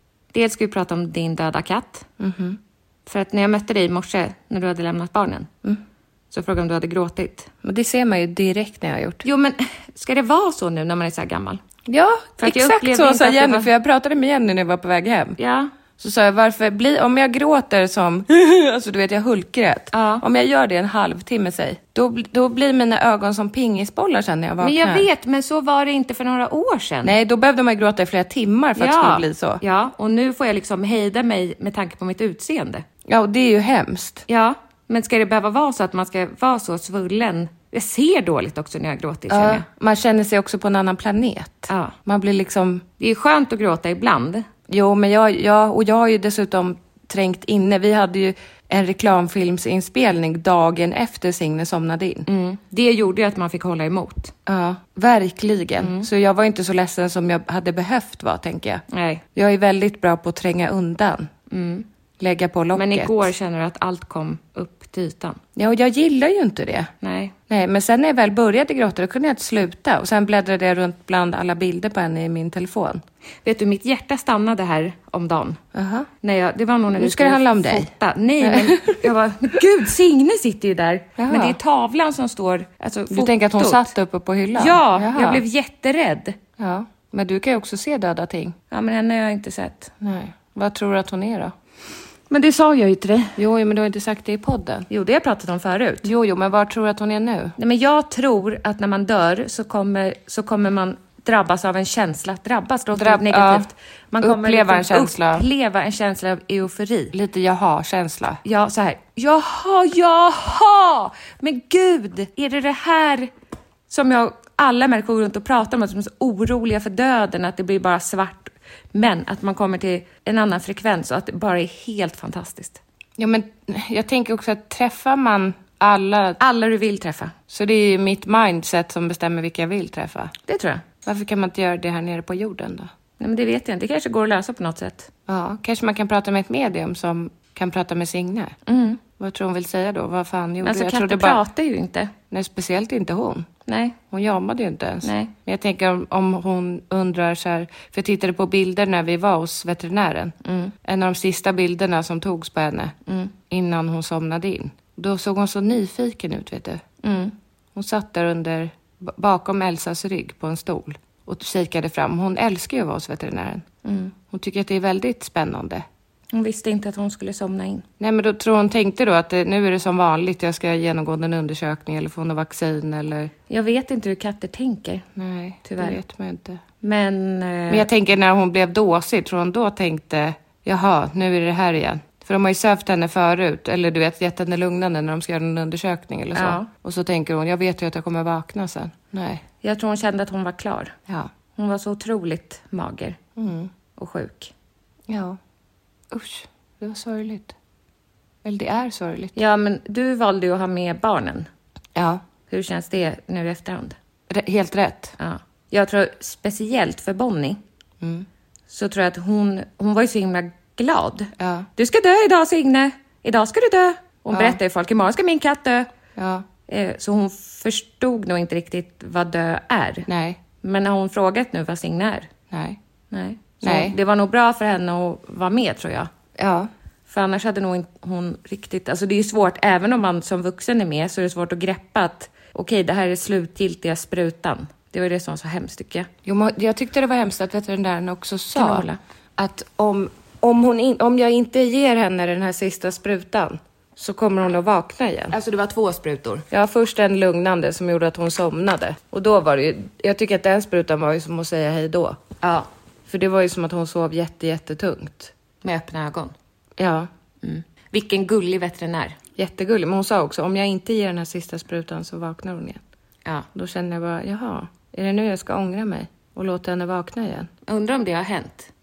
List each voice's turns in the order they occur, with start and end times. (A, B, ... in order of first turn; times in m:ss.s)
0:00.3-0:02.0 A
0:02.2-0:02.6 B
0:03.0-0:05.5 A
0:06.3-0:07.5 A
0:07.6-0:09.2 B
0:09.2-0:11.6 A
0:11.9-0:15.4 B
0:12.4-0:13.7 A
0:15.4-0:15.7 A
0:16.0-0:25.1 B
0:19.9-0:20.2 A
0:24.6-0:27.2 A
0:27.0-0:29.6 B
0:28.8-0:32.8 A
0:33.1-0:34.2 B
0:34.3-0:39.6 A
0:39.3-0:42.9 B
0:41.7-0:42.0 A
0:43.0-0:44.5 A
0:44.7-0:52.2 B
0:52.2-0:54.3 A
0:54.4-1:01.3 B
0:55.8-0:56.1 A
0:58.9-0:59.2 A
1:01.5-1:01.8 A
1:02.2-1:03.3 B
1:02.7-1:05.4 A
1:05.6-1:06.9 B
1:07.0-1:07.3 A
1:07.5-1:13.0 B
1:13.4-1:15.6 A
1:15.7-1:16.1 B
1:16.2-1:23.9 A
1:16.9-1:17.9 B
1:18.4-1:19.0 B
1:21.2-1:21.6 B
1:23.1-1:25.4 B
1:24.6-1:26.4 A
1:26.6-1:28.6 B
1:28.7-1:29.9 A
1:30.0-1:31.5 B
1:32.3-1:33.4 A
1:33.4-1:34.9 B
1:34.9-1:36.1 A
1:36.0-1:37.5 B
1:37.6-1:47.1 A
1:43.0-1:43.7 B
1:44.2-1:45.4 B
1:47.1-1:48.4 B
1:48.4-1:53.3 A
1:53.9-2:02.8 A
2:03.2-2:06.4 B
2:06.4-2:07.3 A
2:07.5-2:10.3 B
2:10.5-2:10.8 A
2:11.0-2:12.9 B
2:13.2-2:15.1 A
2:15.3-2:18.5 B
2:18.6-2:19.0 A
2:19.2-2:21.4 B
2:20.6-2:22.1 A
2:22.3-2:23.5 B
2:23.6-2:24.0 A
2:24.1-2:32.9 B
2:25.0-2:25.3 A
2:30.4-2:30.7 A
2:33.0-2:33.3 A
2:33.5-2:36.8 B
2:37.0-2:37.3 A
2:37.7-2:43.6 B
2:43.8-2:44.1 A
2:44.3-2:45.8 B
2:46.3-2:47.8 A
2:48.0-2:53.3 B
2:53.5-2:55.1 A
2:55.2-2:56.6 B
2:55.6-2:56.0 A
2:56.8-2:57.8 A
2:57.7-3:09.4 B
3:06.3-3:06.7 A
3:09.6-3:10.9 A
3:11.6-3:13.2 A
3:13.4-3:13.7 B
3:14.0-3:14.5 A
3:15.1-3:15.4 B
3:16.1-3:17.5 B
3:18.4-3:19.4 B
3:19.3-3:21.5 A
3:21.9-3:22.2 B
3:22.5-3:24.0 A
3:24.3-3:25.1 B
3:25.2-3:27.6 A
3:28.0-3:28.2 B
3:28.7-3:35.9 A
3:31.4-3:31.7 B
3:34.3-3:34.6 B
3:36.2-3:36.4 B
3:36.7-3:40.1 A
3:40.1-3:40.4 B
3:40.6-3:42.3 A
3:42.5-3:42.8 B
3:43.1-3:46.1 A
3:43.6-3:43.9 B
3:46.4-3:46.7 B
3:47.1-3:56.1 A
3:56.2-4:05.3 B
3:58.5-3:59.0 A
4:05.3-4:06.4 A
4:06.5-4:12.2 B
4:12.4-4:12.7 A
4:13.1-4:15.3 B
4:15.6-4:16.3 A
4:16.8-4:17.1 B
4:17.4-4:19.2 A
4:19.4-4:22.8 B
4:23.5-4:27.5 B
4:27.6-4:28.7 A